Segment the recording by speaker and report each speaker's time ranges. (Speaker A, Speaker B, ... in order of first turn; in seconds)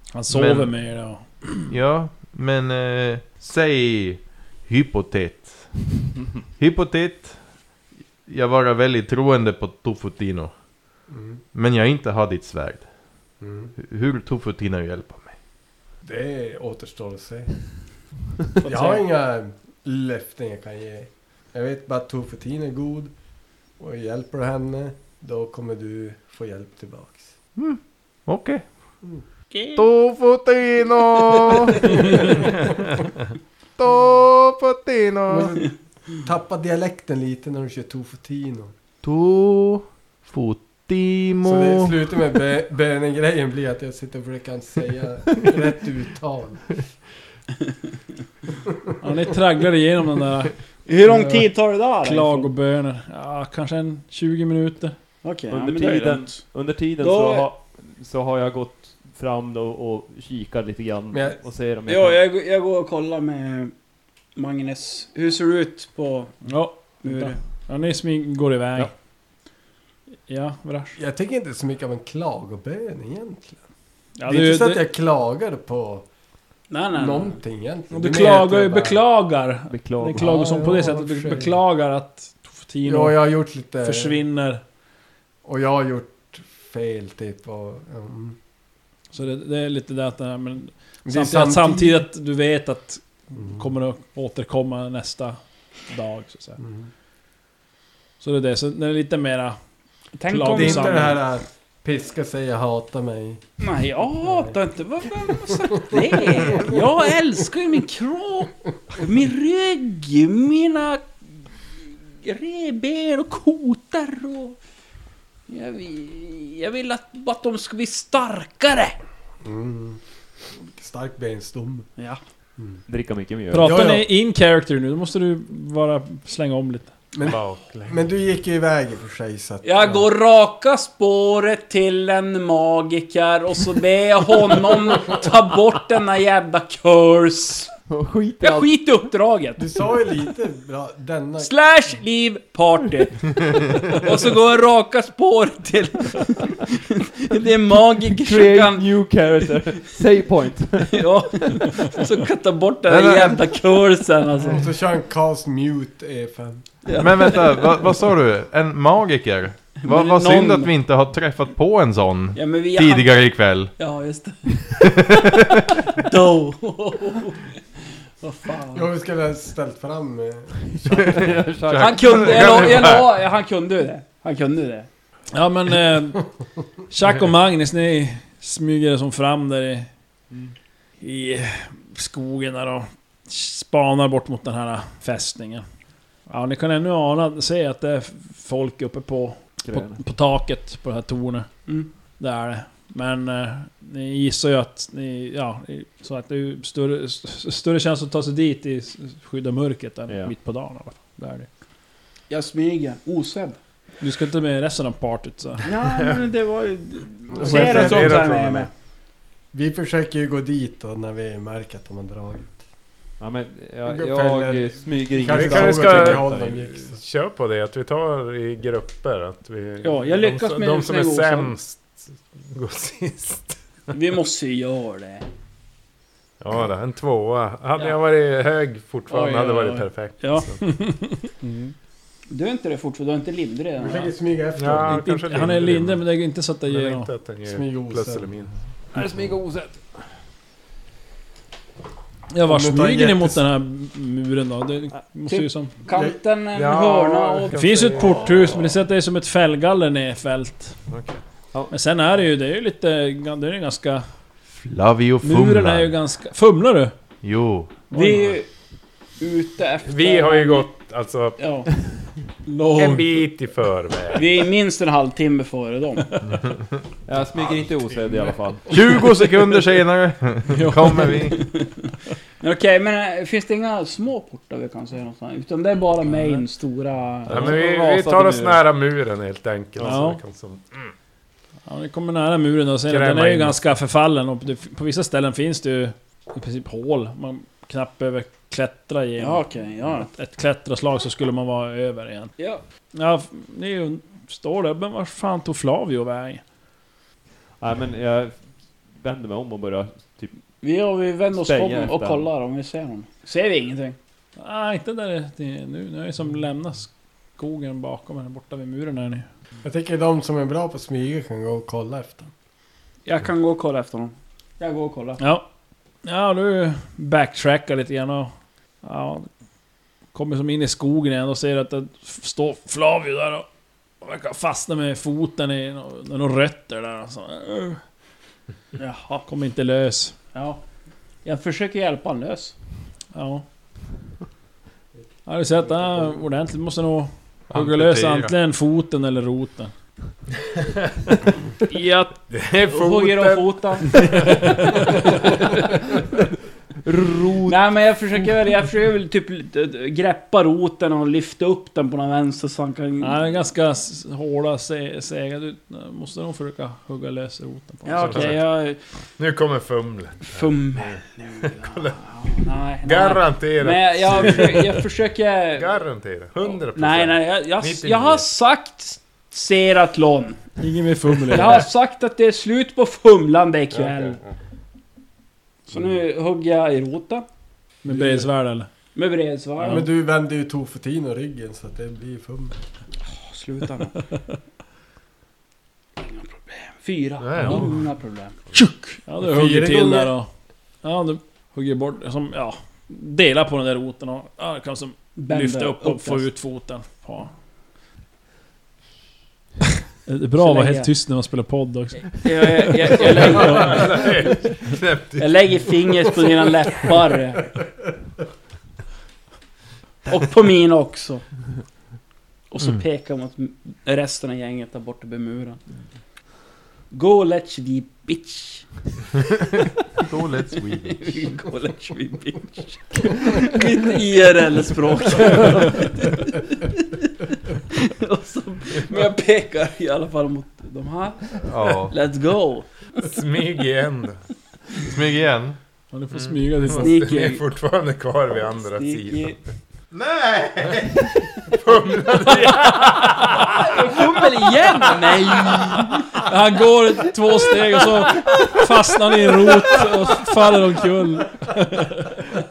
Speaker A: 0.1-1.7, 49.0-50.5, 52.0-55.0, 66.5-68.9, 70.3-71.0, 74.2-74.8, 77.9-83.2, 83.8-84.6, 89.1-96.6, 98.2-99.6, 100.3-101.2, 123.5-126.9, 175.3-176.2, 176.9-179.9, 181.0-185.7, 186.3-191.7, 192.2-201.5, 204.0-205.7, 230.6-231.7, 234.9-237.1, 242.3-245.8, 247.5-250.8, 251.7-254.1, 255.2-256.9, 257.9-258.3, 262.5-263.3, 270.5-271.2, 279.8-280.2, 281.7-292.3, 292.9-296.4, 304.4-309.3, 315.2-315.4, 316.0-319.3, 320.1-323.5, 324.0-327.8, 329.3-330.2, 333.1-333.4, 335.3-339.7, 341.7-342.1, 353.0-358.4, 370.6-371.6, 377.8-378.7, 379.6-379.9, 387.4-387.7, 389.0-390.3, 390.8-397.3, 400.1-402.5, 403.0-403.9, 435.9-437.0, 446.1-452.2
Speaker B: 0.3-0.9, 1.7-6.0, 6.6-7.6, 8.3-10.6, 11.5-15.3, 27.6-28.7, 29.8-32.5, 33.8-35.6, 39.0-42.0, 152.9-153.3, 157.0-163.7, 164.7-166.0, 171.0-173.1, 254.6-255.9, 257.2-257.9, 268.7-271.4, 337.5-338.3, 420.0-421.3, 431.4-432.0, 434.8-435.6, 439.9-441.1
Speaker C: 11.1-11.4, 13.4-13.7, 16.0-17.6, 18.6-23.1, 23.8-27.3, 31.8-32.4, 35.3-38.7, 41.4-46.9, 51.1-51.5, 61.1-61.4, 71.0-73.6, 74.3-76.1, 77.0-79.0, 80.2-81.6, 82.8-84.2, 85.4-88.4, 91.0-92.0, 93.4-93.6, 96.6-96.9, 100.5-103.4, 104.2-104.6, 105.8-106.9, 119.4-120.0, 120.5-121.9, 123.5-124.1, 127.1-130.1, 139.6-141.5, 154.5-157.0, 168.7-171.4, 207.3-208.3, 209.5-212.6, 213.8-216.9, 233.8-235.0, 237.5-238.4, 242.4-243.4, 245.9-246.2, 309.6-312.3, 377.9-378.3, 379.6-382.6, 389.2-390.1
Speaker D: 18.6-19.0, 29.5-29.9, 50.9-52.5, 55.2-56.5, 57.0-57.5, 61.9-63.7, 64.4-66.5, 67.0-67.4, 76.7-77.4, 100.2-101.2, 103.6-111.1, 112.2-114.6, 115.5-119.0, 129.6-137.7, 138.4-139.7, 141.4-149.3, 150.9-154.6, 156.8-157.9, 159.8-160.7, 162.3-163.2, 163.8-164.8, 165.9-167.5, 168.2-168.9, 171.8-174.9, 202.3-203.6, 205.6-208.7, 219.8-221.6, 223.9-225.3, 229.1-230.5, 232.3-234.1, 245.3-248.2, 257.9-258.5, 259.2-260.7, 261.4-261.7, 264.1-266.1, 271.3-271.7, 272.4-277.6, 289.2-290.1, 292.4-292.6, 300.6-304.0, 313.1-315.2, 328.8-329.2, 330.3-330.6, 331.2-332.6, 342.7-345.4, 347.4-353.2, 357.9-358.8, 360.2-365.8, 366.4-370.4, 371.3-374.2, 375.7-377.3, 378.9-379.9, 383.1-384.0, 386.0-389.0, 395.2-396.3, 400.4-400.9, 402.1-404.5, 405.2-407.5, 410.1-411.2, 412.5-415.6, 416.9-418.7, 420.8-432.9, 436.8-437.4, 438.5-439.4, 442.3-446.2, 447.8-448.4
Speaker E: 55.5-62.2, 79.7-80.5, 122.9-123.8, 137.9-138.7, 148.2-152.0, 170.9-173.0, 189.7-190.0, 200.1-200.3, 213.2-216.5, 238.9-240.0, 267.1-268.8, 277.3-278.6, 297.6-300.4, 301.3-302.3, 346.9-347.7
Speaker F: 127.2-128.0, 207.4-208.7, 215.2-223.6, 226.4-230.6, 234.6-236.1, 236.7-238.5, 246.5-248.5, 250.9-251.2, 259.9-261.6, 262.8-264.4, 277.3-280.9, 282.9-283.6, 340.8-341.2, 342.3-345.0, 358.0-358.4, 359.2-364.9, 365.6-368.3, 387.2-387.8, 403.0-406.1, 433.0-434.2, 436.1-439.4, 441.5-443.7